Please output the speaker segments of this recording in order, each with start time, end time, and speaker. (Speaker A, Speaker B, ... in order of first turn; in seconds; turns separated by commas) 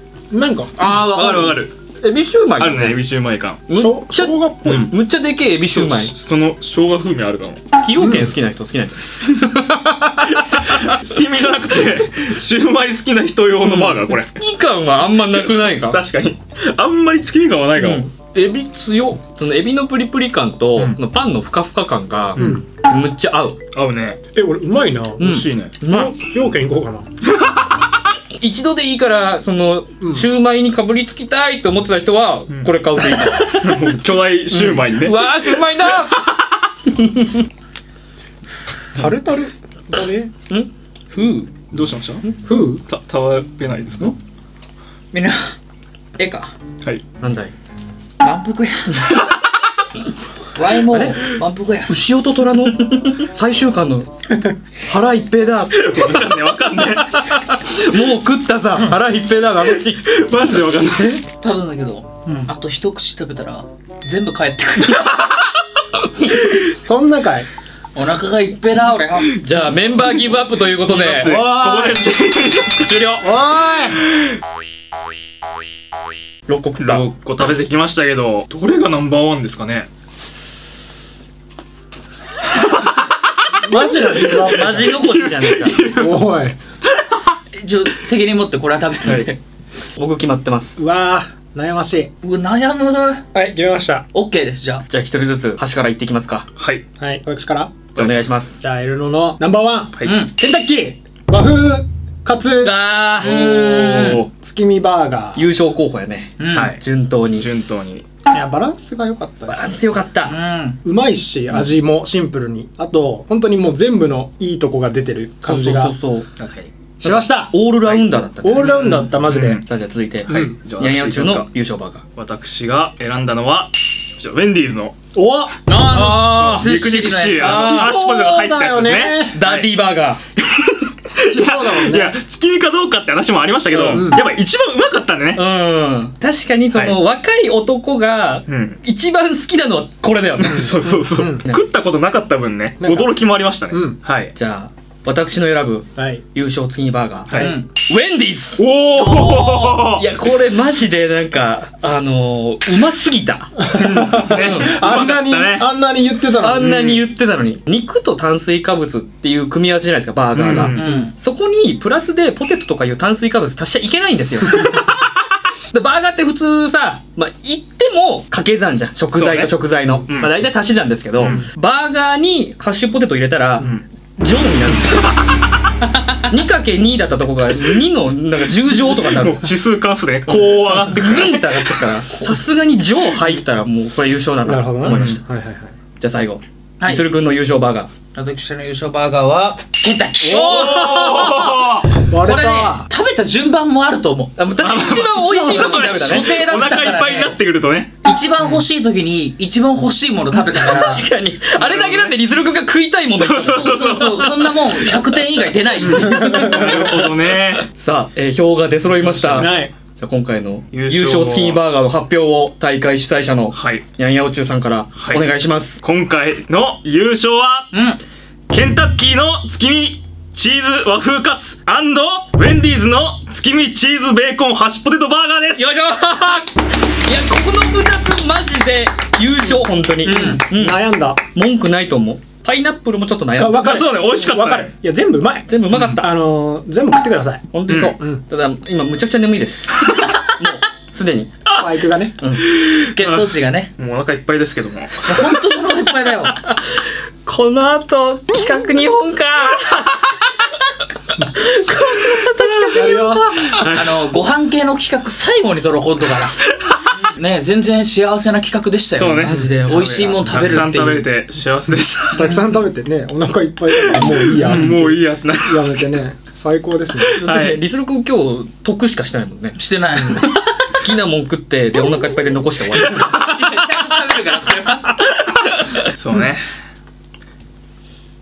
Speaker A: 0.3-0.8, Speaker B: 0.8-1.6, Speaker C: 0.8-1.7, Speaker D: 1.1-3.0, Speaker C: 2.6-3.6, Speaker D: 3.7-6.1, Speaker A: 3.7-4.6, Speaker C: 4.6-4.9, Speaker C: 5.7-7.6, Speaker D: 7.8-10.9, Speaker A: 8.0-8.3, Speaker C: 10.5-14.4, Speaker D: 13.6-16.0, Speaker C: 15.2-18.1, Speaker D: 17.8-23.6, Speaker A: 22.4-22.6, Speaker C: 23.7-24.2, Speaker A: 24.3-25.3, Speaker C: 25.2-25.7, Speaker D: 25.2-26.1, Speaker A: 25.8-27.1, Speaker D: 28.4-33.9, Speaker A: 30.0-30.3, Speaker C: 33.6-36.2, Speaker D: 34.5-36.2, Speaker D: 36.9-37.4, Speaker A: 39.0-40.3, Speaker D: 40.5-41.5, Speaker C: 41.7-44.1, Speaker A: 42.4-42.8, Speaker B: 45.1-45.5, Speaker B: 46.2-46.5, Speaker D: 47.2-47.5, Speaker B: 48.2-49.3, Speaker B: 50.5-51.9, Speaker D: 50.9-54.1, Speaker D: 54.8-60.0, Speaker C: 55.7-57.2, Speaker C: 59.7-61.2, Speaker D: 60.7-61.2, Speaker B: 61.2-65.1, Speaker A: 66.6-67.5, Speaker B: 67.9-69.3, Speaker D: 69.3-71.5, Speaker C: 70.9-73.3, Speaker A: 71.2-71.9, Speaker A: 73.2-74.0, Speaker D: 76.5-77.0, Speaker C: 76.8-79.9, Speaker C: 83.5-86.3, Speaker A: 83.6-85.0, Speaker D: 84.2-85.8, Speaker A: 85.9-86.6, Speaker B: 87.5-89.4, Speaker C: 89.0-89.3, Speaker D: 90.0-90.8, Speaker A: 90.8-92.1, Speaker B: 92.2-93.2, Speaker A: 93.3-94.0, Speaker B: 94.1-94.8, Speaker D: 94.9-96.5, Speaker C: 96.6-96.8, Speaker A: 97.0-97.9, Speaker C: 97.9-98.3, Speaker D: 97.9-98.6, Speaker A: 98.6-102.8, Speaker B: 100.0-100.3, Speaker D: 102.6-104.2, Speaker B: 103.1-104.2, Speaker C: 103.8-104.3, Speaker A: 104.3-105.5, Speaker D: 105.3-107.5, Speaker B: 106.4-106.8, Speaker C: 106.5-108.0, Speaker A: 108.3-109.9, Speaker D: 109.5-110.4, Speaker B: 110.2-110.8, Speaker A: 110.8-116.0, Speaker D: 115.4-116.3, Speaker C: 116.4-116.7, Speaker A: 117.0-117.6, Speaker D: 117.0-122.0, Speaker C: 117.8-119.7, Speaker A: 118.4-119.6, Speaker C: 120.3-121.5, Speaker A: 120.3-120.6, Speaker C: 122.1-124.9, Speaker A: 125.1-125.6, Speaker B: 125.7-127.9, Speaker D: 125.9-126.7, Speaker C: 126.2-129.7, Speaker D: 127.4-127.9, Speaker A: 127.5-129.4, Speaker D: 129.3-130.2, Speaker C: 130.5-135.4, Speaker A: 131.1-132.2, Speaker A: 133.7-134.2, Speaker D: 133.8-134.1, Speaker D: 135.3-140.7, Speaker C: 136.7-137.0, Speaker C: 138.5-138.8, Speaker C: 140.4-144.3, Speaker A: 140.4-141.5, Speaker A: 142.8-144.0, Speaker D: 144.3-148.6, Speaker A: 145.9-146.2, Speaker B: 147.3-147.7, Speaker C: 148.6-150.0, Speaker B: 148.9-150.3, Speaker D: 150.0-153.8, Speaker C: 153.7-155.7, Speaker A: 153.8-156.7, Speaker D: 154.3-154.8, Speaker D: 156.4-165.0, Speaker C: 156.5-157.0, Speaker C: 160.3-160.8, Speaker B: 160.7-161.1, Speaker D: 165.7-175.2, Speaker C: 169.1-169.6, Speaker C: 170.1-170.4, Speaker C: 171.2-171.5, Speaker D: 176.2-179.5, Speaker C: 178.8-182.0, Speaker D: 180.3-185.2, Speaker A: 184.4-185.7, Speaker C: 184.8-185.2, Speaker D: 186.0-187.9, Speaker B: 186.8-187.1, Speaker B: 188.1-191.0, Speaker D: 190.2-191.3, Speaker C: 190.2-191.9, Speaker A: 190.4-192.9, Speaker B: 192.1-194.4, Speaker D: 194.4-196.7, Speaker C: 194.6-198.5, Speaker B: 195.1-197.4, Speaker B: 198.0-201.1, Speaker D: 200.3-205.1, Speaker C: 201.5-202.2, Speaker C: 203.1-204.4, Speaker B: 203.5-206.5, Speaker D: 205.8-215.8, Speaker C: 206.4-207.6, Speaker C: 209.1-209.5, Speaker A: 209.2-209.7, Speaker C: 210.7-211.6, Speaker C: 213.5-213.8, Speaker C: 214.9-215.3, Speaker C: 215.8-217.7, Speaker B: 217.7-218.0, Speaker C: 218.5-225.6, Speaker D: 225.6-233.8, Speaker B: 230.0-230.4, Speaker A: 230.1-231.2, Speaker A: 233.3-238.2, Speaker C: 233.5-234.7, Speaker D: 235.5-236.1, Speaker C: 235.7-236.0, Speaker D: 237.5-241.6, Speaker C: 237.7-238.0, Speaker A: 241.5-242.2, Speaker D: 242.2-242.4, Speaker C: 242.5-245.1, Speaker B: 242.9-243.7, Speaker B: 245.1-246.4, Speaker D: 245.3-250.1, Speaker D: 251.2-253.5, Speaker A: 252.7-253.3, Speaker C: 253.6-253.9, Speaker B: 253.7-256.4, Speaker B: 257.0-261.1, Speaker C: 258.9-262.4, Speaker A: 259.3-259.5, Speaker A: 262.1-267.2, Speaker C: 263.9-265.9, Speaker D: 267.1-273.2, Speaker C: 267.1-267.6, Speaker B: 269.6-270.6, Speaker C: 272.8-273.1, Speaker B: 273.1-275.0, Speaker C: 275.9-276.4